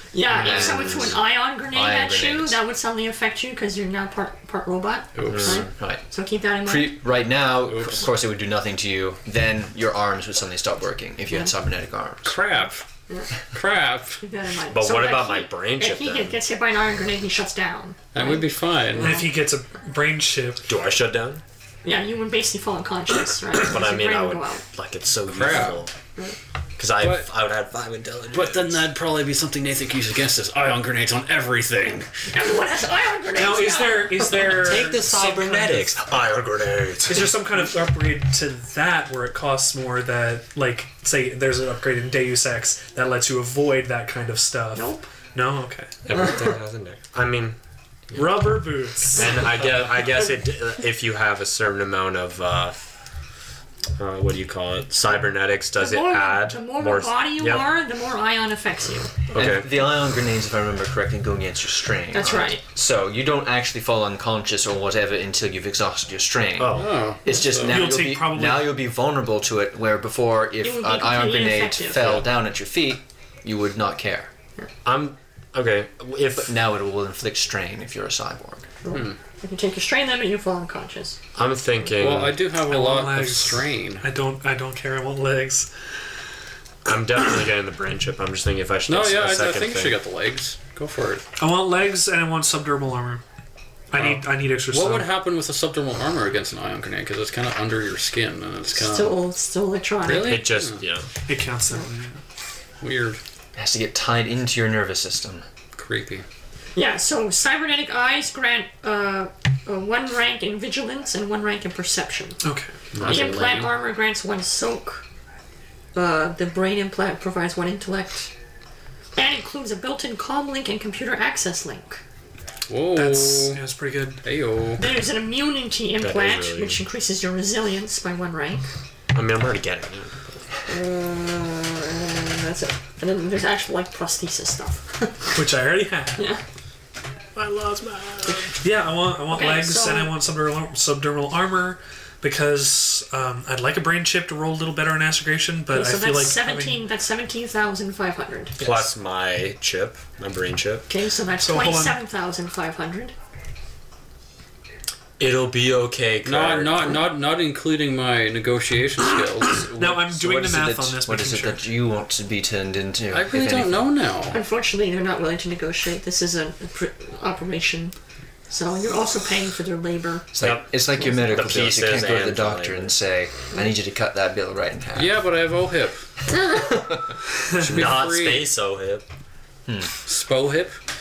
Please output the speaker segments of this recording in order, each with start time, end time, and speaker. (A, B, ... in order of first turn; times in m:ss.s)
0:00.1-0:07.0 A
0:00.4-0:02.6 B
0:00.4-0:01.1 C
0:05.1-0:05.6 D
0:05.2-0:05.6 C
0:05.5-0:06.0 B
0:06.6-0:12.4 B
0:07.7-0:08.1 D
0:12.2-0:12.8 D
0:13.5-0:14.2 D
0:14.2-0:18.5 A
0:14.7-0:16.4 C
0:18.1-0:19.3 D
0:19.0-0:20.6 E
0:19.0-0:19.2 A
0:20.7-0:21.4 C
0:21.8-0:24.6 A
0:23.5-0:25.9 C
0:25.3-0:25.8 D
0:26.8-0:28.8 C
0:27.0-0:27.3 D
0:28.3-0:32.1 D
0:32.3-0:34.6 A
0:33.4-0:36.2 E
0:34.4-0:37.4 C
0:37.0-0:45.9 E
0:44.7-0:45.1 A
0:46.0-0:47.6 C
0:48.1-0:52.8 C
0:48.1-0:49.9 E
0:54.0-0:57.6 C
0:55.8-0:59.1 A
0:59.3-0:59.7 C
0:59.3-1:14.3 B
1:02.1-1:02.6 A
1:06.6-1:07.0 C
1:06.7-1:07.9 D
1:07.6-1:08.8 E
1:10.6-1:12.2 A
1:12.0-1:12.2 C
1:14.8-1:16.5 C
1:16.3-1:18.6 B
1:18.8-1:21.2 A
1:18.9-1:19.2 D
1:21.3-1:22.4 C
1:22.0-1:24.0 D
1:22.6-1:25.7 E
1:26.8-1:30.0 C
1:28.9-1:31.2 D
1:31.4-1:33.2 E
1:33.9-1:35.1 E
1:34.0-1:39.2 D
1:38.7-1:40.5 A
1:40.0-1:40.8 D
1:40.1-1:41.1 C
1:41.2-1:42.2 E
1:42.8-1:43.2 D
1:43.5-1:45.4 B
1:45.7-1:46.2 D
1:46.8-1:52.4 A
1:52.4-1:52.7 E
1:52.9-1:53.4 C
1:53.0-1:53.7 D
1:53.0-1:55.0 A
1:55.9-1:58.3 A
1:59.1-2:02.0 A
2:02.7-2:03.6 D
2:02.9-2:04.2 E
2:04.2-2:04.9 D
2:04.8-2:08.6 A
2:06.0-2:06.8 C
2:09.1-2:10.4 C
2:10.7-2:15.4 A
2:15.3-2:16.2 E
2:16.2-2:16.4 A
2:17.3-2:26.8 E
2:19.3-2:20.2 A
2:25.7-2:28.6 A
2:28.6-2:28.9 E
2:28.6-2:30.9 C
2:30.9-2:33.1 A
2:31.4-2:32.0 E
2:35.2-2:37.0 C
2:36.2-2:39.6 D
2:39.7-2:43.9 B
2:39.7-2:41.6 E
2:43.1-2:44.4 D
2:44.3-2:47.9 A
2:48.5-2:50.3 A
2:50.3-2:55.2 B
2:50.4-2:52.9 C
2:54.9-2:56.0 D
2:57.4-2:57.8 E
2:57.6-2:59.0 C
2:57.6-2:58.5 D
2:59.7-2:59.9 B
3:00.0-3:00.8 D